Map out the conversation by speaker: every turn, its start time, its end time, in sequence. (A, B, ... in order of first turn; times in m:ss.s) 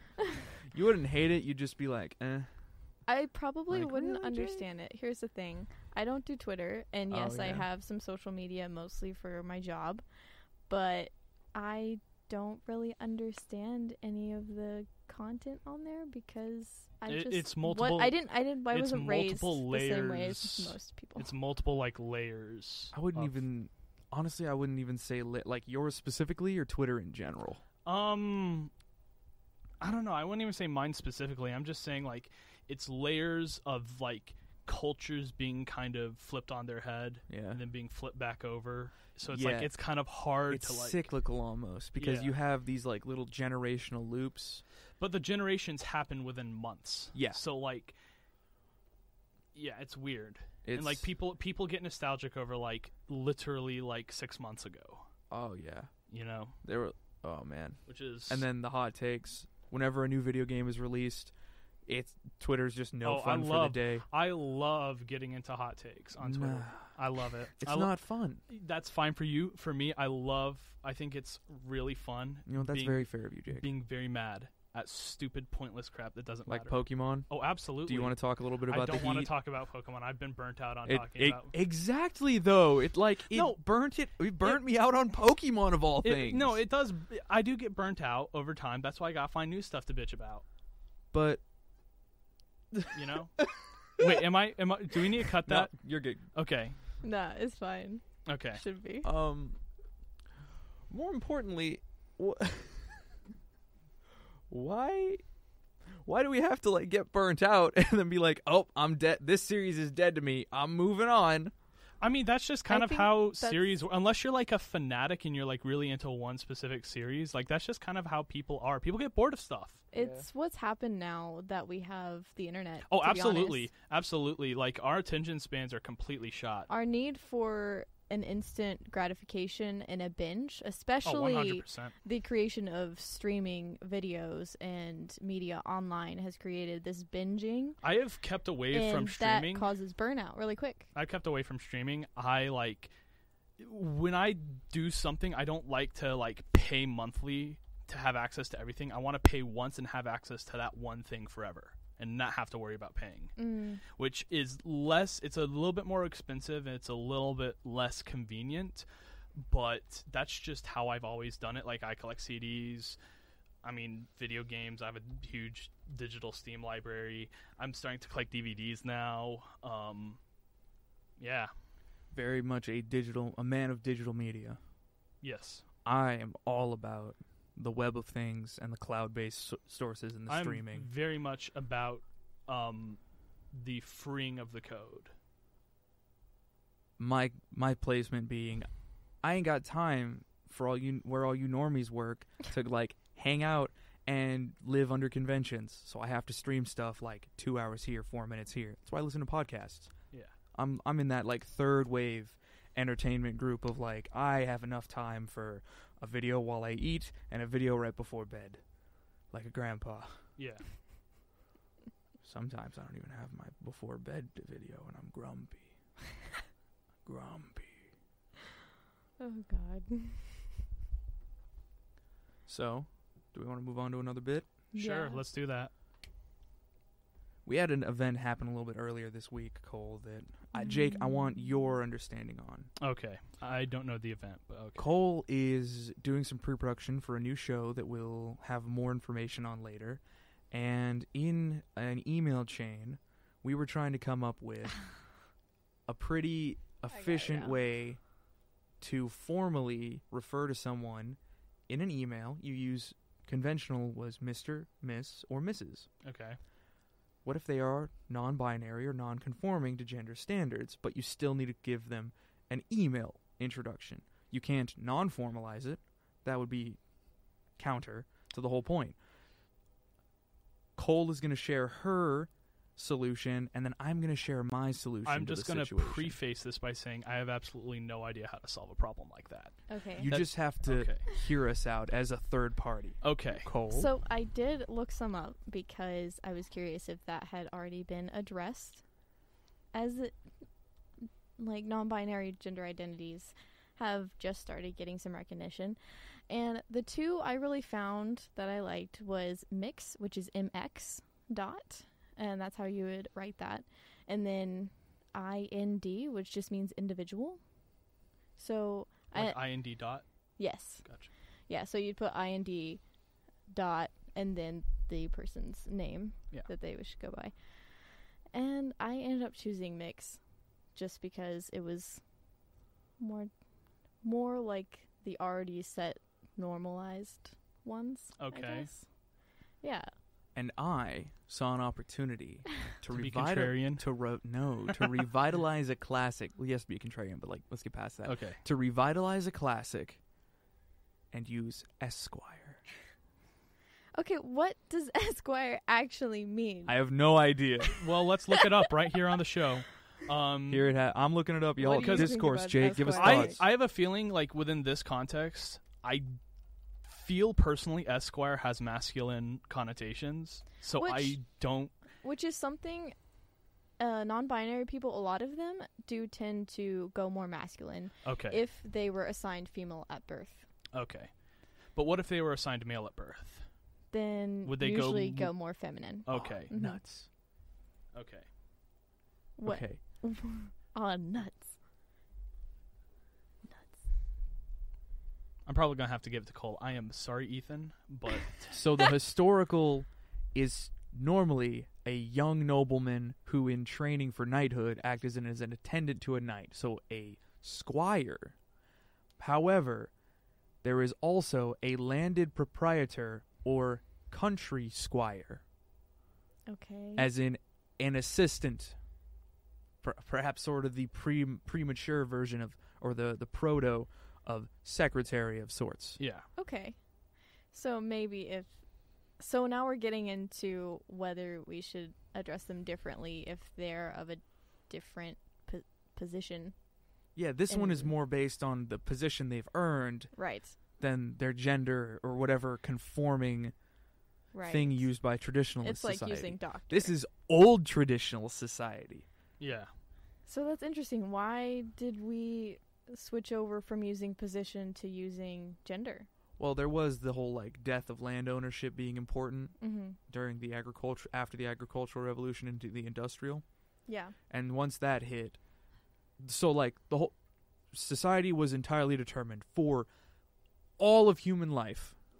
0:00.6-0:02.5 A
0:03.1-0:10.0 B
0:03.7-0:04.7 A
0:07.1-0:07.7 A
0:10.7-0:21.3 B
0:17.1-0:23.4 C
0:22.9-0:27.6 A
0:27.8-0:28.7 C
0:29.8-0:41.1 C
0:37.3-0:37.6 A
0:39.3-0:39.7 A
0:40.5-0:44.6 A
0:42.0-0:42.4 C
0:45.0-0:47.9 C
0:47.1-0:47.4 A
0:49.5-0:55.0 C
0:50.6-0:51.0 A
0:55.3-0:55.9 A
0:56.1-0:56.6 C
0:56.6-1:01.3 A
0:57.9-0:58.4 C
1:01.9-1:04.0 A
1:03.0-1:07.9 C
1:06.2-1:06.9 A
1:07.6-1:08.4 A
1:08.5-1:21.5 C
1:12.5-1:13.7 A
1:16.5-1:17.3 A
1:17.8-1:19.3 A
1:20.8-1:26.6 A
1:23.3-1:23.6 C
1:26.0-1:30.4 C
1:31.1-1:31.4 A
1:32.9-1:35.8 C
1:35.4-1:36.2 A
1:36.3-1:36.8 C
1:37.0-1:39.1 B
1:38.2-1:38.6 C
1:39.0-1:39.6 A
1:40.9-1:43.2 A
1:44.5-1:45.2 A
1:46.0-1:51.5 A
1:52.0-1:59.8 C
1:52.7-1:53.8 B
1:59.9-2:03.7 B
1:59.9-2:00.3 A
2:02.9-2:06.7 C
2:06.7-2:17.8 B
2:11.0-2:11.9 C
2:17.8-2:19.6 C
2:18.7-2:20.9 B
2:20.9-2:22.9 C
2:23.6-2:33.4 C
2:33.4-2:33.8 B
2:33.9-2:38.8 C
2:39.4-2:43.0 C
2:43.6-2:50.2 C
2:51.2-2:51.5 C
2:52.1-2:54.6 A
2:55.2-2:55.6 C
2:55.8-3:00.9 A
3:00.3-3:03.0 C
3:03.5-3:05.1 C
3:07.0-3:08.7 A
3:09.2-3:19.9 A
3:20.5-3:28.6 A
3:29.3-3:30.2 A
3:30.4-3:30.6 C
3:32.2-3:35.7 A
3:37.0-3:37.9 A
3:39.2-3:40.5 B
3:42.5-3:44.5 A
3:44.7-3:45.2 B
3:44.7-3:45.7 C
3:47.4-3:52.7 A
3:50.5-3:51.1 B
3:52.8-3:54.8 C
3:54.8-4:04.8 A
4:05.9-4:08.0 A
4:06.9-4:07.6 B
4:08.8-4:15.9 A
4:16.0-4:16.4 C
4:17.2-4:26.8 A
4:27.6-4:29.0 A
4:30.8-4:36.2 A
4:35.0-4:41.0 C
4:39.7-4:40.1 B
4:40.0-4:43.9 A
4:43.0-4:43.5 C
4:43.7-4:48.8 B
4:49.7-4:50.2 B
4:51.4-5:07.4 B
5:08.4-5:09.4 B
5:09.1-5:10.0 C
5:10.4-5:10.8 B
5:10.8-5:11.1 C
5:11.5-5:12.8 B
5:13.5-5:17.3 B
5:18.3-5:20.2 B
5:20.7-5:22.0 B
5:23.0-5:23.3 B
5:24.0-5:28.9 B
5:28.2-5:28.7 C
5:29.6-5:29.9 B
5:30.3-5:40.0 A
5:32.9-5:33.8 C
5:38.0-5:38.4 C
5:41.1-5:42.6 A
5:44.0-5:46.8 B
5:46.6-5:47.8 A
5:47.7-5:50.7 C
5:48.3-5:48.7 B
5:50.5-5:53.4 A
5:51.6-5:53.4 B
5:51.8-5:52.1 C
5:52.9-5:56.1 C
5:56.8-6:01.7 C
6:00.8-6:01.2 B
6:02.0-6:02.9 B
6:03.8-6:10.4 B
6:08.0-6:08.4 C
6:10.7-6:11.1 C
6:11.7-6:13.5 C
6:13.9-6:16.8 B
6:14.4-6:15.3 C
6:16.0-6:16.5 C
6:16.1-6:17.1 A
6:17.9-6:18.2 C
6:19.4-6:21.6 B
6:19.4-6:19.8 A
6:23.5-6:23.7 B
6:25.4-6:28.6 C
6:28.5-6:38.3 A
6:39.2-6:39.9 A
6:40.6-6:45.4 A
6:46.5-6:47.1 B
6:47.0-6:48.8 A
6:49.8-6:56.0 A
6:56.0-6:56.2 C
6:56.4-6:56.8 B
6:57.5-6:58.6 B
6:59.2-7:06.5 B
7:07.1-7:10.1 A
7:07.5-7:07.9 B
7:10.1-7:10.5 B
7:10.8-7:13.5 A
7:14.3-7:14.8 B
7:14.5-7:19.0 A
7:15.6-7:16.9 B
7:19.4-7:19.7 C
7:20.3-7:26.1 B
7:26.4-7:29.6 A
7:29.6-7:30.0 B
7:30.1-7:33.4 A
7:33.9-7:34.1 B
7:34.3-7:35.4 A
7:36.2-7:37.1 A
7:37.7-7:39.9 A
7:40.8-7:42.0 A